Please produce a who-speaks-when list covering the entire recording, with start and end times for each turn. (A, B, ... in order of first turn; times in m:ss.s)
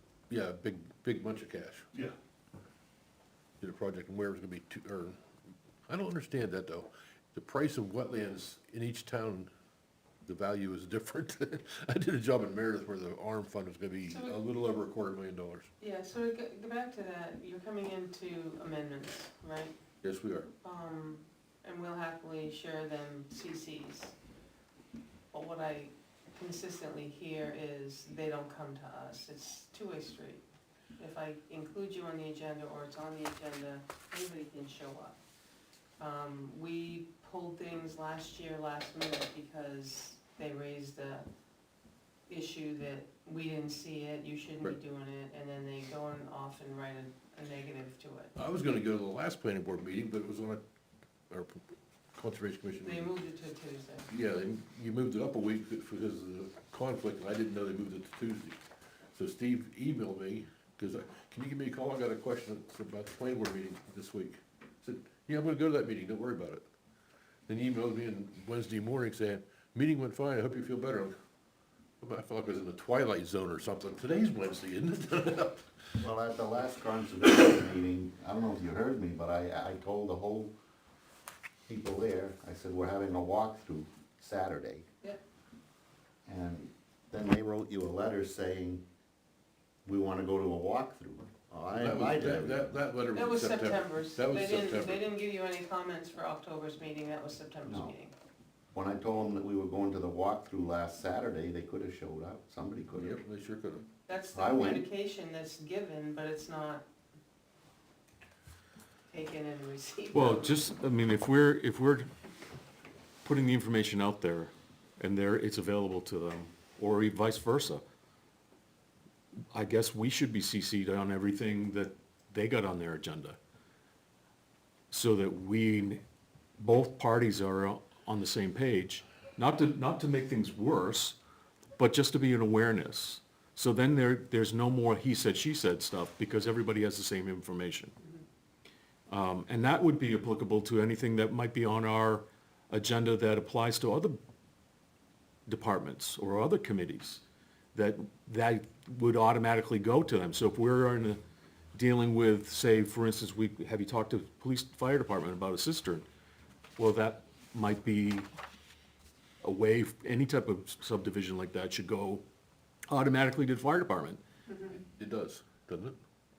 0:00.3-0:01.9 A
0:03.6-0:05.2 A
0:05.9-0:09.5 A
0:10.2-0:15.7 A
0:14.1-0:14.4 B
0:15.8-0:19.8 B
0:20.0-0:20.5 A
0:20.6-0:24.2 B
0:25.3-0:30.4 B
0:31.0-0:35.2 B
0:36.0-0:41.3 B
0:42.3-0:48.3 B
0:48.4-0:50.6 A
0:51.3-0:53.1 A
0:52.8-0:54.1 B
0:54.1-0:58.6 A
0:59.2-1:06.6 A
1:07.5-1:11.2 A
1:12.0-1:15.7 A
1:16.0-1:20.5 C
1:21.7-1:24.9 C
1:26.3-1:28.8 C
1:29.9-1:32.7 C
1:31.8-1:35.0 A
1:33.1-1:38.1 B
1:37.6-1:38.0 C
1:38.7-1:43.2 C
1:43.0-1:43.9 A
1:44.1-1:46.8 B
1:44.3-1:44.9 C
1:49.1-1:50.6 B
1:50.1-1:52.1 D
1:53.2-1:57.8 D
1:59.5-2:03.4 D
2:04.9-2:06.0 D
2:06.6-2:11.2 D
2:11.8-2:17.9 D
2:19.1-2:24.2 D
2:25.5-2:27.2 D
2:27.7-2:31.2 D
2:31.8-2:36.0 D
2:36.8-2:38.3 D
2:39.4-2:42.2 D
2:42.9-2:44.2 D
2:44.5-2:44.8 B
2:45.0-2:46.0 A